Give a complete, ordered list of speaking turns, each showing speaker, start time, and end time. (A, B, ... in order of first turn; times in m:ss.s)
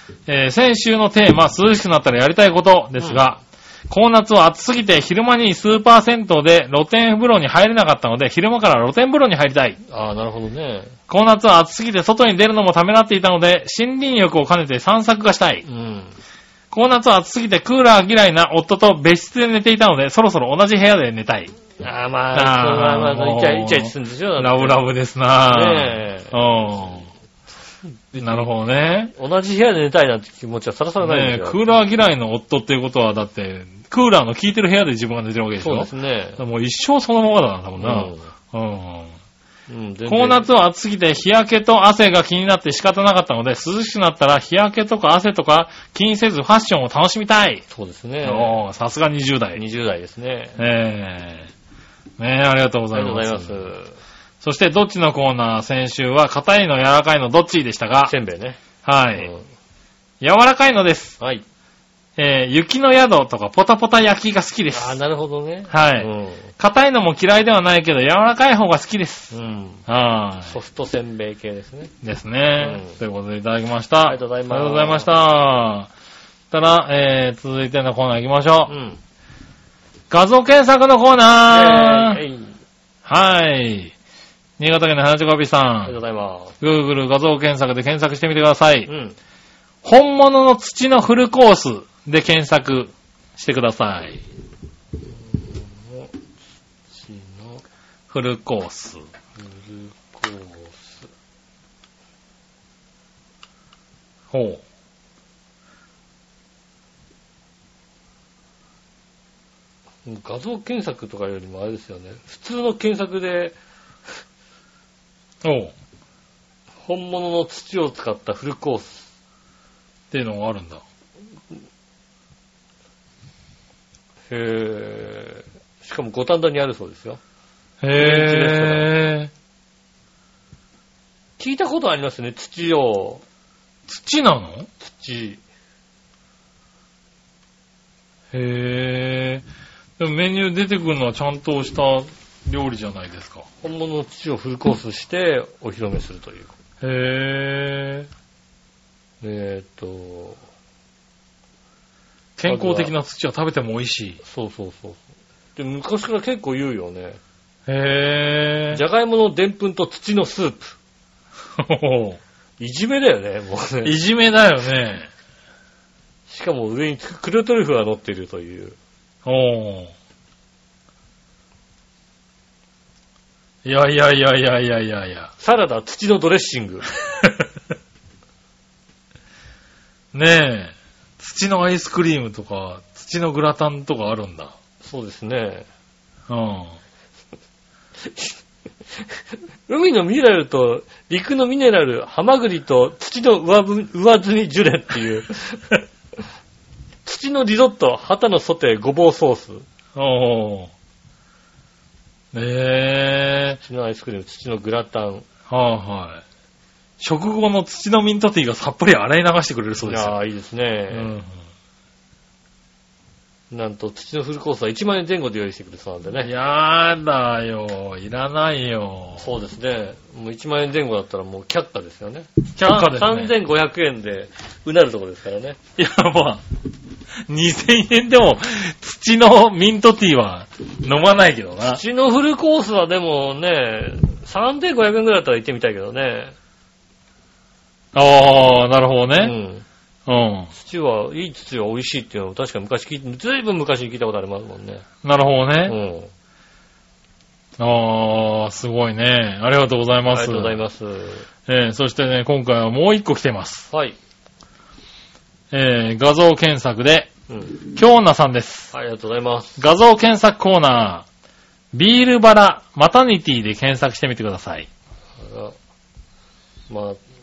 0:00.3-0:09.8 A
0:09.9-0:10.9 B
0:11.1-0:15.6 A
0:15.6-0:16.2 B
0:16.7-0:21.5 A
0:21.8-0:24.8 B
0:22.3-0:27.1 A
0:25.5-0:27.0 B
0:28.1-0:28.5 B
0:28.2-0:29.1 A
0:29.1-0:31.6 B
0:31.0-0:39.1 A
0:35.6-0:36.4 B
0:37.8-0:38.3 B
0:39.7-0:40.4 B
0:40.1-0:47.6 A
0:47.7-0:48.6 B
0:48.2-0:49.6 A
0:49.5-0:50.6 B
0:50.6-0:51.5 A
0:52.2-0:53.7 A
0:52.9-0:54.0 B
0:54.4-0:58.1 A
0:58.0-0:58.6 B
0:58.8-0:59.3 A
0:59.2-0:59.5 B
1:00.2-1:01.2 A
1:02.2-1:05.0 A
1:04.7-1:06.5 B
1:05.7-1:09.3 A
1:09.3-1:09.8 B
1:09.9-1:10.6 A
1:10.4-1:11.9 B
1:12.0-1:15.9 A
1:12.6-1:13.0 B
1:14.0-1:15.1 B
1:16.5-1:18.7 A
1:18.7-1:19.0 B
1:20.1-1:22.2 A
1:21.5-1:22.6 B
1:23.0-1:23.9 A
1:24.6-1:26.0 A
1:25.8-1:26.5 B
1:26.6-1:28.9 A
1:28.9-1:29.2 B
1:29.8-1:34.2 A
1:35.1-1:36.1 B
1:36.9-1:37.6 B
1:38.1-1:39.0 A
1:39.4-1:41.1 B
1:44.3-1:44.6 A
1:50.0-1:53.6 B
1:55.4-1:55.7 A
1:56.8-1:59.1 B
2:00.1-2:00.8 A
2:04.3-2:07.2 B
2:07.8-2:09.3 A
2:08.0-2:08.9 B
2:11.4-2:13.2 B
2:13.9-2:14.7 A
2:14.8-2:15.4 B
2:18.3-2:19.4 A
2:20.0-2:23.5 A
2:23.6-2:26.5 B
2:26.8-2:28.1 A
2:29.2-2:30.4 B
2:32.4-2:34.2 A
2:32.5-2:32.9 B
2:34.2-2:35.0 B
2:35.6-2:37.2 B
2:37.7-2:38.8 A
2:38.7-2:40.8 B
2:41.6-2:42.2 A
2:42.6-2:43.9 B
2:43.8-2:45.1 A
2:46.3-2:48.8 B
2:49.2-2:49.9 A
2:53.6-2:55.3 A
2:55.4-2:56.9 B
3:00.1-3:04.5 A
3:04.8-3:05.7 B
3:06.3-3:06.8 A
3:08.1-3:08.3 B
3:09.7-3:15.8 B
3:17.0-3:19.6 B
3:19.9-3:20.7 A
3:22.3-3:23.6 A
3:23.6-3:25.3 B
3:25.5-3:26.2 A
3:27.0-3:30.1 A
3:29.8-3:31.1 B
3:30.9-3:31.3 A
3:33.5-3:36.3 B
3:36.2-3:39.3 A
3:39.2-3:45.6 B
3:42.6-3:43.3 A
3:45.8-3:46.4 A
3:47.3-3:51.8 A
3:51.6-3:56.3 B
3:57.9-3:59.3 A
3:59.2-3:59.6 B
4:00.1-4:00.5 A
4:00.5-4:04.8 B
4:05.0-4:05.8 A
4:05.6-4:06.1 B
4:07.6-4:10.5 A
4:10.1-4:11.3 B
4:11.5-4:13.7 A
4:15.5-4:18.7 A
4:17.3-4:17.6 B
4:18.7-4:19.6 B
4:19.6-4:21.0 A
4:21.7-4:24.7 A
4:25.2-4:25.5 B
4:26.7-4:27.0 B